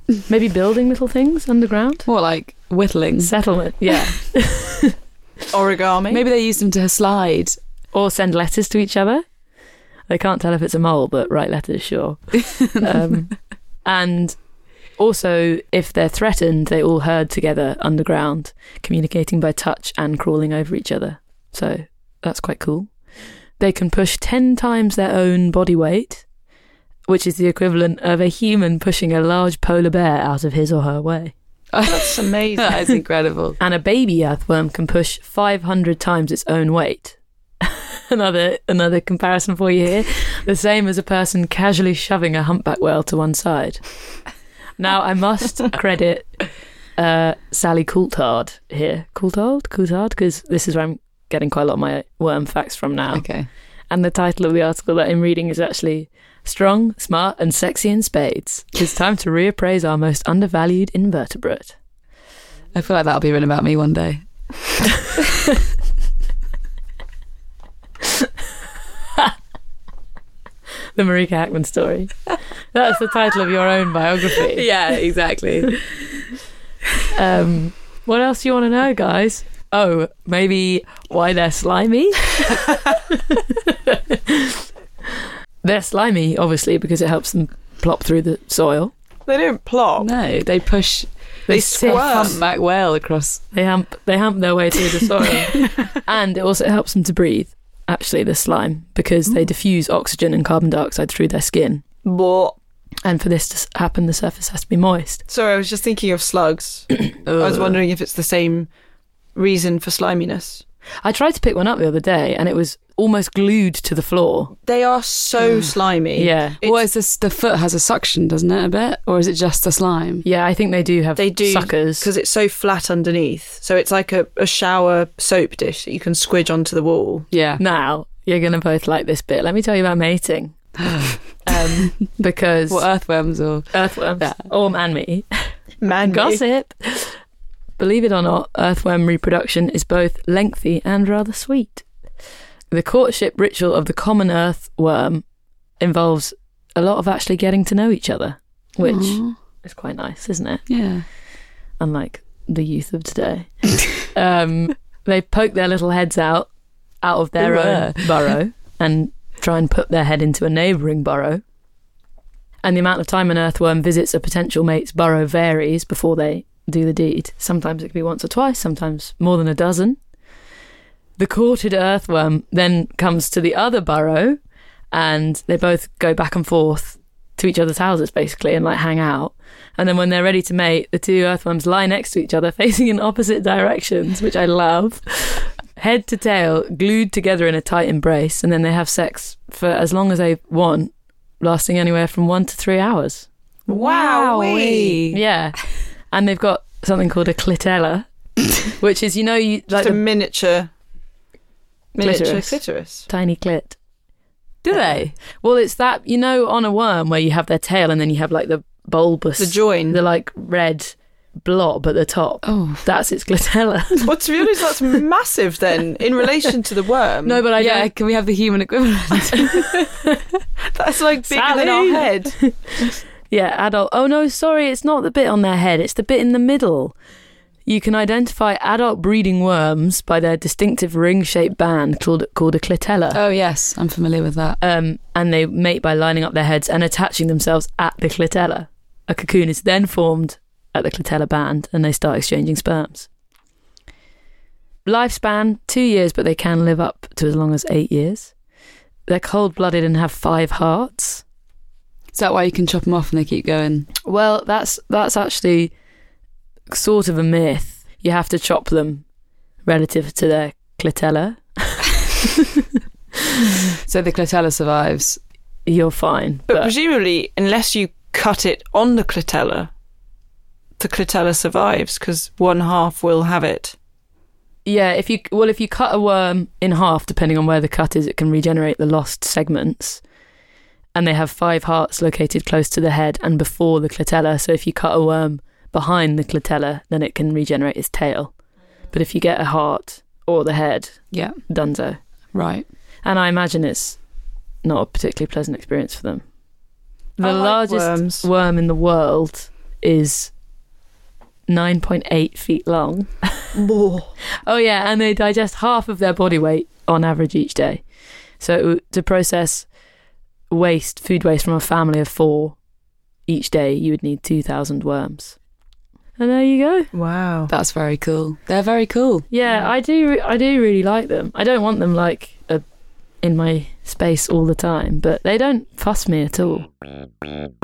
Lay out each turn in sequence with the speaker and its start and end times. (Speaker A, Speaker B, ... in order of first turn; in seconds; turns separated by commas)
Speaker A: 0.3-2.1, Speaker B: 2.1-3.3, Speaker A: 3.2-5.0, Speaker C: 5.5-6.2, Speaker B: 6.1-7.6, Speaker A: 7.9-9.2, Speaker A: 10.1-14.4, Speaker A: 15.0-22.9, Speaker A: 23.6-26.2, Speaker A: 27.1-31.3, Speaker B: 31.7-33.6, Speaker C: 31.8-32.8, Speaker A: 33.6-43.9, Speaker A: 44.8-46.4, Speaker A: 47.0-53.3, Speaker B: 53.1-53.5, Speaker A: 53.9-61.8, Speaker B: 62.7-64.2, Speaker A: 71.0-74.7, Speaker B: 74.4-75.7, Speaker A: 77.1-84.7, Speaker A: 85.6-88.9, Speaker C: 89.3-90.1, Speaker B: 90.0-93.5, Speaker A: 91.5-92.4, Speaker C: 91.5-92.4, Speaker A: 93.5-101.8, Speaker C: 102.0-102.5, Speaker A: 103.0-105.2, Speaker C: 105.3-108.7, Speaker B: 107.2-107.8, Speaker C: 109.3-110.6, Speaker A: 111.0-114.5, Speaker C: 114.7-116.8, Speaker A: 116.2-116.6, Speaker B: 116.6-120.2, Speaker A: 120.2-122.1, Speaker C: 121.2-127.3, Speaker B: 127.3-127.6, Speaker A: 127.6-130.8, Speaker B: 130.8-131.9, Speaker A: 131.5-132.9, Speaker B: 132.7-134.5, Speaker A: 133.7-137.2, Speaker C: 135.8-136.4, Speaker A: 137.8-141.8, Speaker A: 142.7-145.2, Speaker A: 145.8-150.7, Speaker B: 148.8-149.4, Speaker B: 150.7-151.1, Speaker A: 151.8-156.5, Speaker A: 157.0-161.4, Speaker B: 157.4-158.3, Speaker A: 162.6-170.0, Speaker A: 171.2-174.4, Speaker A: 174.9-193.3, Speaker C: 193.7-195.0, Speaker B: 193.7-195.2, Speaker A: 195.1-195.6, Speaker A: 196.1-198.1, Speaker A: 198.6-200.0, Speaker C: 199.7-200.7, Speaker C: 202.0-203.1, Speaker A: 202.0-203.8, Speaker B: 204.6-205.1, Speaker A: 204.7-214.1, Speaker C: 209.4-210.0, Speaker B: 212.4-212.8, Speaker C: 214.1-217.4, Speaker A: 217.2-217.9, Speaker B: 217.6-219.8, Speaker A: 219.2-220.2, Speaker C: 220.7-222.4, Speaker A: 221.2-226.9, Speaker A: 227.7-233.2, Speaker B: 233.1-234.6, Speaker A: 234.6-243.1, Speaker A: 244.8-248.3, Speaker A: 249.1-251.2, Speaker B: 252.1-253.9, Speaker A: 254.0-255.7, Speaker A: 256.7-259.0, Speaker A: 259.6-262.6, Speaker B: 263.9-265.2, Speaker A: 265.7-266.7, Speaker C: 266.5-269.7, Speaker C: 270.8-273.8, Speaker A: 274.6-280.0, Speaker A: 280.9-288.3, Speaker A: 288.9-292.0, Speaker B: 291.1-291.4, Speaker B: 292.3-292.7, Speaker A: 293.0-294.0, Speaker A: 294.6-296.2, Speaker A: 297.2-300.3, Speaker C: 297.2-298.3, Speaker A: 301.5-303.6, Speaker C: 303.5-304.1, Speaker A: 304.4-307.8, Speaker A: 308.4-309.7, Speaker A: 310.5-312.6, Speaker A: 313.3-315.4, Speaker A: 316.2-316.9, Speaker C: 316.9-317.5, Speaker B: 317.5-319.2, Speaker A: 319.3-322.6, Speaker A: 323.2-326.7